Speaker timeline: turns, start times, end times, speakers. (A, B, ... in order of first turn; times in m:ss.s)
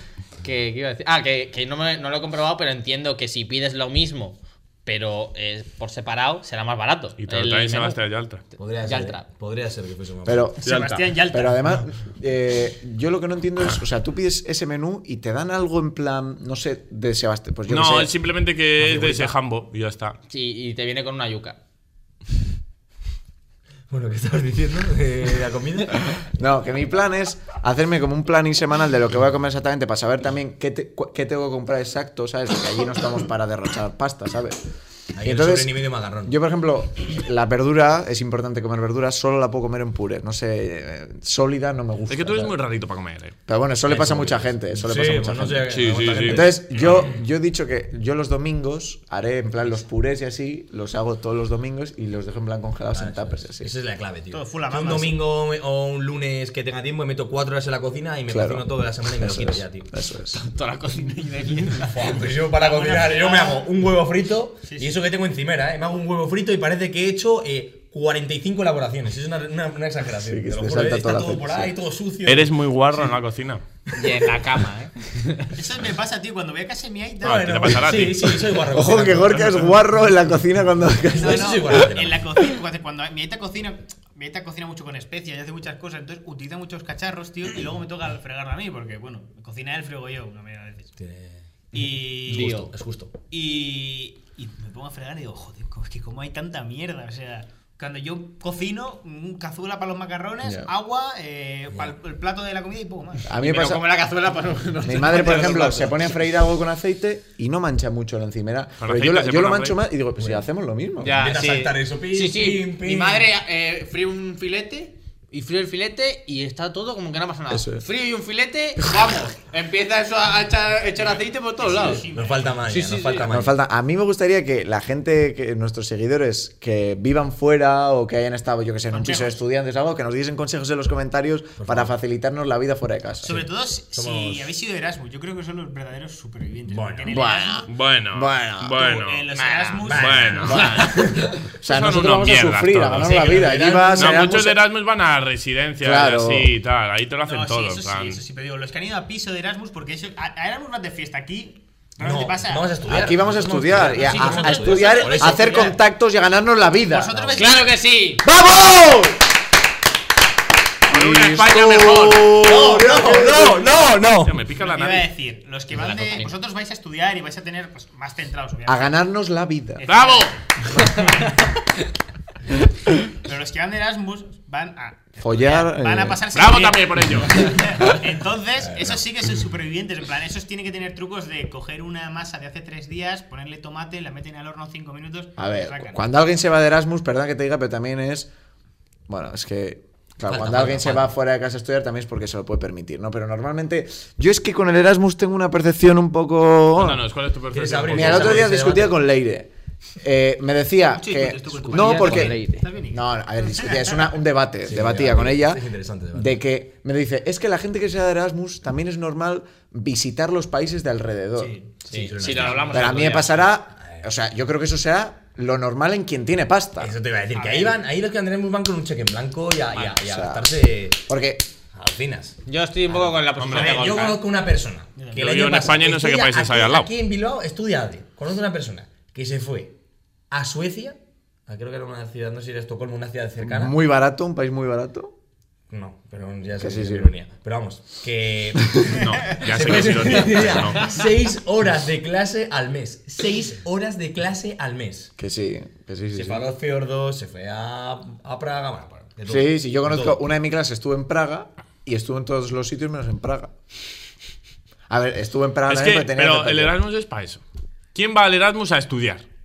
0:00.4-0:08.0 A
0:07.2-0:08.4 B
0:08.6-0:10.5 C
0:08.8-0:09.2 A
0:10.2-0:18.1 D
0:10.6-0:11.6 E
0:10.6-0:11.0 B
0:17.7-0:20.2 B
0:18.8-0:19.2 C
0:20.3-0:21.6 A
0:23.9-0:26.2 C
0:26.3-0:34.6 D
0:35.2-0:36.4 C
0:35.2-0:42.5 D
0:42.1-0:43.4 B
0:43.5-0:53.7 D
0:43.8-0:47.1 C
0:45.7-0:47.0 B
0:52.9-0:59.9 C
0:54.3-0:55.2 E
0:58.3-1:00.4 D
1:00.4-1:02.1 A
1:01.8-1:13.1 C
1:02.5-1:03.6 E
1:04.6-1:04.9 E
1:10.3-1:11.7 D
1:12.2-1:13.6 B
1:13.9-1:15.5 A
1:15.5-1:17.8 E
1:17.2-1:18.3 B
1:17.2-1:19.8 C
1:18.6-1:21.9 D
1:21.1-1:22.2 C
1:21.2-1:30.9 E
1:31.0-1:33.1 C
1:31.7-1:32.6 E
1:32.3-1:32.7 A
1:33.3-1:43.3 E
1:40.4-1:40.7 D
1:43.2-1:43.8 D
1:43.4-1:45.9 A
1:44.8-1:51.2 D
1:45.0-1:45.9 C
1:48.8-1:49.8 B
1:51.0-2:02.0 A
1:51.1-1:53.3 C
1:57.5-1:57.8 D
2:01.0-2:02.6 E
2:01.8-2:03.5 C
2:02.6-2:03.3 A
2:03.2-2:13.4 D
2:08.9-2:09.4 E
2:11.6-2:11.9 C
2:13.2-2:14.5 C
2:13.2-2:17.7 E
2:16.7-2:17.3 C
2:17.1-2:18.8 D
2:17.7-2:19.3 B
2:18.8-2:21.0 E
2:19.3-2:19.9 A
2:19.8-2:21.3 C
2:19.9-2:20.8 B
2:20.4-2:21.0 D
2:20.5-2:21.0 A
2:21.5-2:24.6 D
2:21.6-2:23.3 B
2:22.9-2:24.3 C
2:24.0-2:28.2 B
2:25.8-2:26.5 D
2:27.2-2:32.7 E
2:32.0-2:35.7 C
2:32.9-2:37.3 D
2:33.8-2:35.8 E
2:36.9-2:37.7 E
2:37.3-2:38.2 A
2:38.3-2:38.8 C
2:38.3-2:39.1 D
2:40.9-2:42.5 B
2:40.9-2:43.7 D
2:42.3-2:44.4 C
2:44.2-2:45.1 B
2:44.6-2:48.8 E
2:45.7-2:46.3 A
2:48.6-2:49.8 D
2:49.8-2:51.6 E
2:49.8-2:50.4 B
2:53.1-3:06.0 E
2:55.2-2:56.2 D
2:56.3-2:57.7 B
2:58.6-2:59.0 C
3:05.4-3:08.3 D
3:09.1-3:17.0 D
3:10.3-3:11.1 C
3:10.4-3:10.7 A
3:16.8-3:18.5 B
3:17.5-3:19.0 C
3:17.9-3:19.5 D
3:20.0-3:25.6 D
3:20.9-3:24.0 E
3:21.7-3:22.7 A
3:24.6-3:26.4 C
3:26.1-3:31.6 D
3:31.4-3:31.7 E
3:31.8-3:33.3 A
3:31.9-3:34.0 C
3:32.2-3:32.8 E
3:32.7-3:36.9 D
3:36.8-3:41.0 C
3:37.3-3:37.8 E
3:40.0-3:40.5 D
3:41.0-3:41.5 D
3:41.7-3:42.4 C
3:42.4-3:44.2 A
3:42.9-3:49.7 C
3:43.4-3:44.0 B
3:45.0-3:45.3 E
3:45.1-3:46.9 B
3:50.3-3:53.8 C
3:53.4-3:55.1 D
3:55.7-4:05.1 C
3:56.6-3:57.1 D
3:58.9-4:00.9 B
4:05.2-4:06.5 D
4:06.1-4:10.2 C
4:09.3-4:13.5 D
4:14.9-4:16.7 D
4:15.7-4:17.4 B
4:17.9-4:19.2 B